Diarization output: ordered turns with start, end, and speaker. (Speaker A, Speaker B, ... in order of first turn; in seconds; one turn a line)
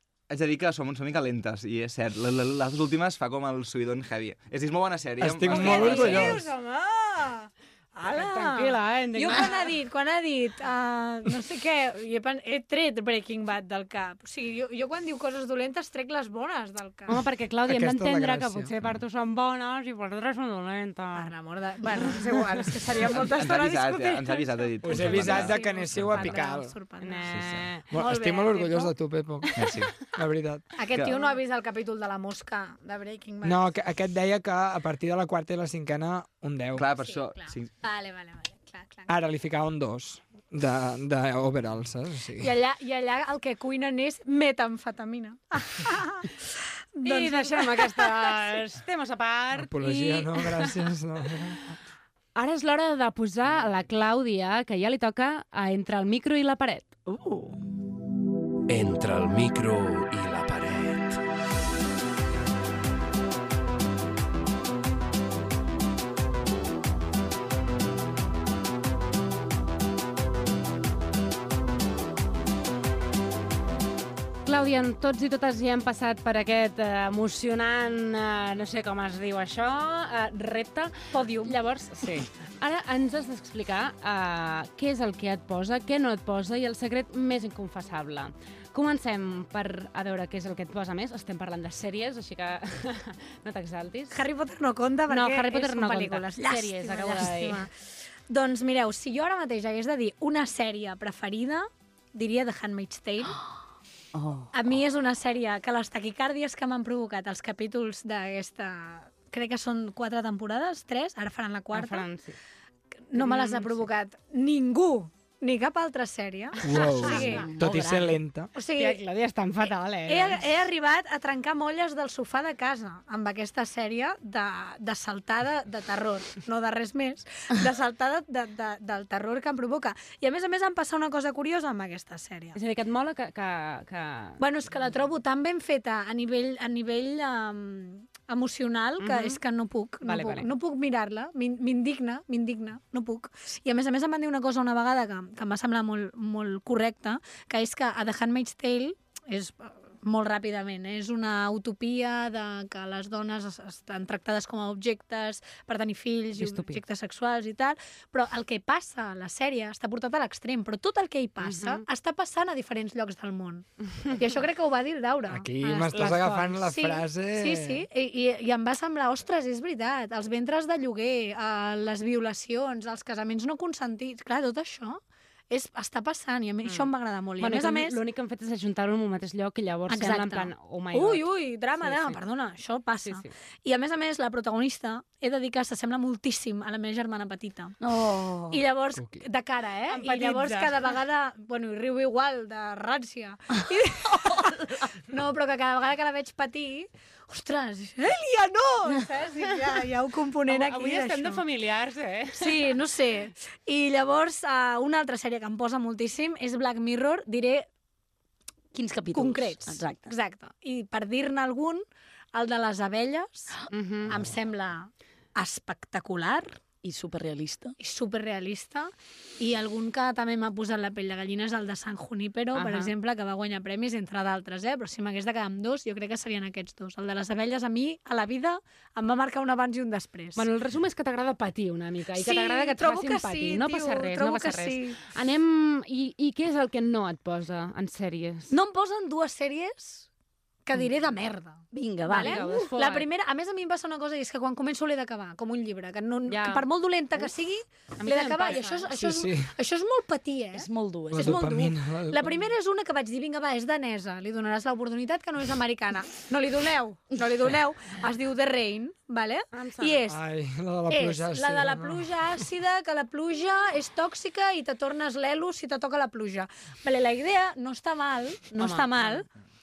Speaker A: 0.3-6.4
Speaker B: 5.2-6.4
Speaker C: 5.4-17.2
Speaker D: 8.0-9.5
Speaker D: 17.1-21.3
Speaker B: 17.6-18.7
Speaker C: 21.1-27.4
Speaker A: 23.1-26.3
Speaker B: 24.8-26.8
Speaker D: 27.0-27.9
Speaker A: 27.3-27.7
Speaker B: 27.9-31.1
Speaker C: 27.9-28.9
Speaker A: 29.6-29.9
Speaker C: 30.8-33.6
Speaker A: 30.9-31.1
Speaker B: 33.4-36.9
Speaker A: 36.7-37.7
Speaker C: 37.0-39.1
Speaker B: 39.1-42.5
Speaker C: 42.4-46.4
Speaker C: 47.0-48.5
Speaker D: 47.0-50.7
Speaker B: 49.5-51.8
Speaker D: 52.4-56.9
Speaker E: 58.7-61.2
Speaker D: 74.5-94.1
Speaker C: 81.1-81.5
Speaker C: 94.1-97.7
Speaker D: 95.1-97.6
Speaker C: 98.3-103.5
Speaker F: 104.2-104.5
Speaker C: 104.5-112.1
Speaker D: 111.7-112.4
Speaker C: 113.1-117.5
Speaker D: 113.2-113.8
Speaker B: 116.6-118.5
Speaker D: 116.7-117.8
Speaker C: 118.5-119.0
Speaker D: 118.8-120.4
Speaker C: 119.7-132.6
Speaker D: 132.5-134.4
Speaker C: 134.4-178.0
Speaker D: 139.0-139.4
Speaker D: 140.0-140.5
Speaker D: 156.4-156.8
Speaker D: 161.4-161.8
Speaker B: 165.3-167.8
Speaker D: 165.9-166.6
Speaker D: 176.6-181.2
Speaker C: 179.9-187.8
Speaker D: 181.8-182.2
Speaker F: 187.8-188.6
Speaker C: 188.5-201.4
Speaker B: 188.9-189.2
Speaker D: 189.9-190.7
Speaker D: 200.5-202.7
Speaker C: 202.3-207.7
Speaker F: 208.7-210.1
Speaker C: 209.1-216.6
Speaker D: 213.7-214.2
Speaker F: 216.8-217.8
Speaker C: 217.8-230.5
Speaker D: 222.5-222.9
Speaker D: 230.3-238.5
Speaker C: 232.2-235.0
Speaker C: 238.5-240.1
Speaker C: 240.7-260.2
Speaker F: 241.7-242.4
Speaker D: 242.1-243.1
Speaker D: 246.3-246.6
Speaker D: 248.0-248.9
Speaker B: 248.9-249.5
Speaker F: 250.5-251.4
Speaker B: 251.1-252.5
Speaker D: 259.5-260.0
Speaker B: 260.1-262.1
Speaker C: 260.9-269.3
Speaker D: 268.5-268.9